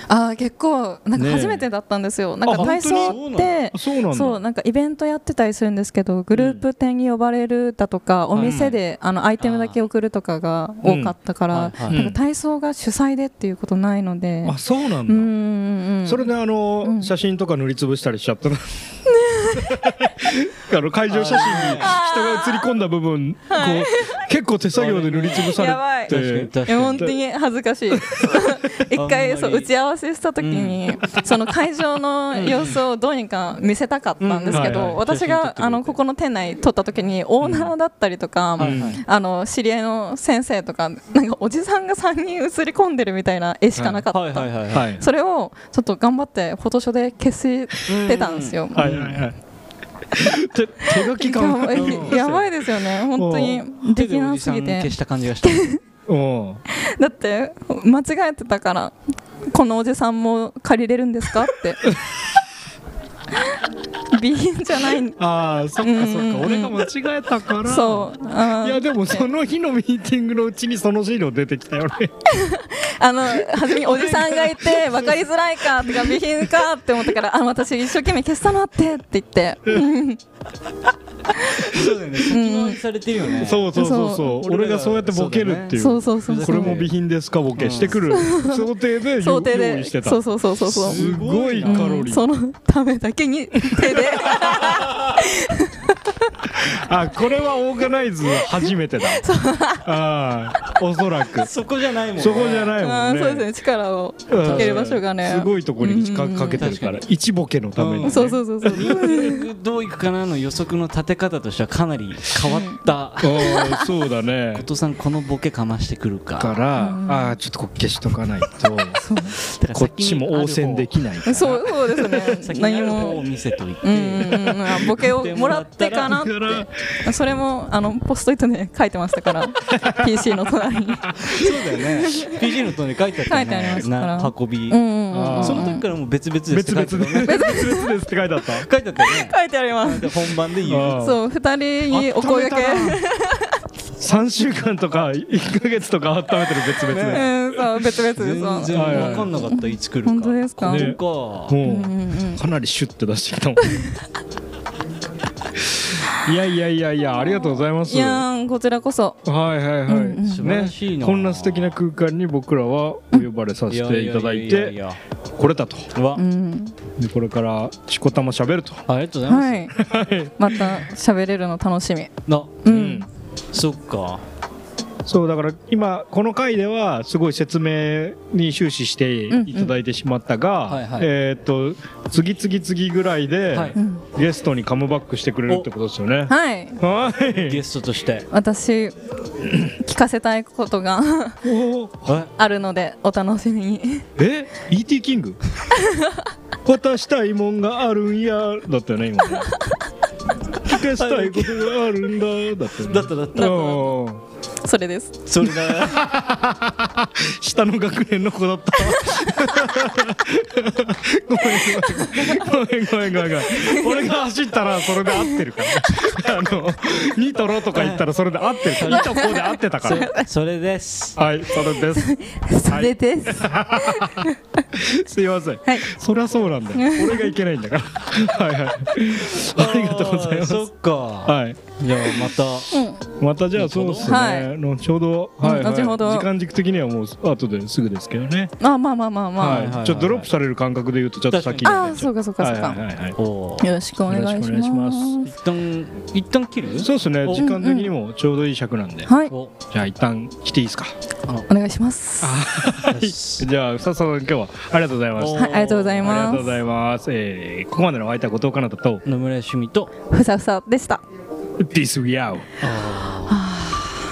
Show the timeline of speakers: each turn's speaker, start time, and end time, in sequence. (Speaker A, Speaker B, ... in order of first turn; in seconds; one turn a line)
Speaker A: 0.1-17.1
Speaker B: 1.2-1.7
Speaker B: 2.4-4.4
Speaker C: 2.6-3.6
Speaker B: 6.3-6.6
Speaker C: 8.3-8.6
Speaker B: 8.4-8.8
Speaker C: 9.4-9.8
Speaker B: 10.8-11.2
Speaker C: 11.5-12.0
Speaker B: 11.9-12.2
Speaker B: 14.4-15.3
Speaker B: 16.1-18.9
Speaker A: 19.1-20.0
Speaker B: 19.5-27.1
Speaker C: 21.1-22.0
Speaker A: 21.8-22.8
Speaker A: 23.5-24.1
Speaker C: 24.8-27.1
Speaker A: 25.4-49.1
Speaker B: 27.9-28.5
Speaker C: 28.9-29.7
Speaker C: 30.4-31.2
Speaker C: 32.3-32.8
Speaker C: 34.2-36.0
Speaker B: 34.5-35.0
Speaker C: 37.4-37.7
Speaker C: 38.6-39.0
Speaker B: 38.6-39.0
Speaker B: 43.8-44.0
Speaker C: 44.1-44.9
Speaker B: 44.7-45.0
Speaker C: 47.9-49.2
Speaker B: 48.8-49.4
Speaker B: 50.1-52.5
Speaker A: 51.0-54.9
Speaker C: 51.7-52.3
Speaker B: 53.1-53.6
Speaker C: 53.9-55.8
Speaker A: 55.4-55.8
Speaker B: 56.1-56.6
Speaker A: 56.7-58.9
Speaker A: 59.5-61.9
Speaker A: 64.1-65.2
Speaker B: 65.2-72.1
Speaker A: 65.8-66.8
Speaker A: 67.7-69.3
Speaker A: 72.3-80.2
Speaker B: 73.5-75.2
Speaker B: 75.8-76.5
Speaker A: 81.3-82.8
Speaker C: 81.6-86.9
Speaker B: 83.4-92.2
Speaker A: 83.7-84.4
Speaker A: 85.8-86.8
Speaker C: 87.5-88.0
Speaker A: 88.1-88.7
Speaker A: 89.2-91.1
Speaker C: 90.7-92.1
Speaker A: 91.7-96.0
Speaker B: 93.7-94.4
Speaker C: 94.5-95.1
Speaker B: 96.5-99.3
Speaker A: 98.5-99.9
Speaker B: 99.8-101.5
Speaker C: 101.4-102.8
Speaker B: 102.2-103.5
Speaker A: 102.8-106.7
Speaker B: 104.3-109.2
Speaker C: 104.4-105.0
Speaker C: 106.6-107.0
Speaker C: 107.8-113.6
Speaker A: 108.0-109.5
Speaker A: 112.5-112.8
Speaker B: 113.2-114.7
Speaker A: 113.4-113.8
Speaker C: 114.5-116.6
Speaker B: 116.4-119.0
Speaker A: 116.8-117.4
Speaker A: 119.0-119.4
Speaker C: 119.4-126.2
Speaker B: 119.7-121.9
Speaker A: 121.3-123.2
Speaker A: 123.8-132.4
Speaker B: 126.0-127.0
Speaker B: 129.7-130.4
Speaker C: 131.2-134.8
Speaker A: 133.3-135.9
Speaker B: 135.1-135.7
Speaker C: 135.3-137.7
Speaker B: 136.5-138.7
Speaker A: 137.2-137.9
Speaker C: 138.6-141.2
Speaker A: 139.0-140.3
Speaker B: 140.7-141.2
Speaker A: 141.0-143.5
Speaker B: 141.9-143.0
Speaker B: 144.0-147.4
Speaker C: 146.8-147.3
Speaker A: 147.1-151.0
Speaker C: 147.8-151.6
Speaker B: 148.7-149.4
Speaker B: 150.7-153.9
Speaker A: 151.6-152.4
Speaker B: 155.7-158.3
Speaker A: 157.2-159.2
Speaker B: 159.2-164.8
Speaker A: 159.9-160.6
Speaker C: 160.3-161.8
Speaker C: 163.7-165.0
Speaker B: 165.4-165.9
Speaker C: 165.9-166.2
Speaker A: 166.2-166.8
Speaker B: 167.0-168.8
Speaker C: 168.9-169.7
Speaker A: 169.3-169.8
Speaker B: 169.8-170.8
Speaker A: 170.4-172.1
Speaker C: 172.3-172.9
Speaker A: 172.6-173.1
Speaker B: 172.7-173.1
Speaker C: 173.5-174.2
Speaker B: 175.1-187.6
Speaker A: 179.3-179.8
Speaker C: 180.7-181.1
Speaker A: 183.8-184.0
Speaker A: 186.3-186.8
Speaker C: 187.4-188.3
Speaker A: 188.3-188.9
Speaker A: 189.6-191.4
Speaker B: 191.4-192.2
Speaker C: 192.1-192.3
Speaker A: 192.4-194.1
Speaker B: 194.2-195.4
Speaker A: 195.8-196.2
Speaker B: 196.7-199.5
Speaker B: 200.6-204.2
Speaker C: 200.8-201.8
Speaker C: 202.8-203.9
Speaker A: 203.3-203.9
Speaker A: 204.6-205.2
Speaker C: 205.3-206.1
Speaker B: 205.4-220.1
Speaker A: 213.5-213.9
Speaker C: 217.7-218.1
Speaker C: 218.7-221.2
Speaker A: 218.9-220.3
Speaker B: 221.2-230.7
Speaker A: 221.9-224.4
Speaker A: 226.7-227.3
Speaker C: 229.3-232.8
Speaker B: 231.2-231.8
Speaker A: 232.7-233.1
Speaker B: 233.2-238.5
Speaker C: 233.6-234.2
Speaker A: 234.0-234.5
Speaker A: 235.4-236.3
Speaker A: 238.6-239.7
Speaker B: 239.4-243.2
Speaker C: 239.4-240.3
Speaker C: 241.3-242.0
Speaker A: 241.7-242.8
Speaker C: 243.2-243.7
Speaker A: 243.6-245.3
Speaker B: 244.0-245.2
Speaker C: 245.2-247.5
Speaker B: 246.8-249.1
Speaker A: 247.3-247.9
Speaker A: 249.1-249.3
Speaker C: 249.3-249.5
Speaker B: 249.7-251.0
Speaker A: 251.5-252.4
Speaker B: 252.2-259.0
Speaker C: 252.8-253.5
Speaker C: 255.2-256.3
Speaker A: 255.3-256.6
Speaker C: 259.1-259.9
Speaker A: 260.1-261.0
Speaker B: 261.6-262.5
Speaker C: 262.6-263.5
Speaker A: 263.3-263.9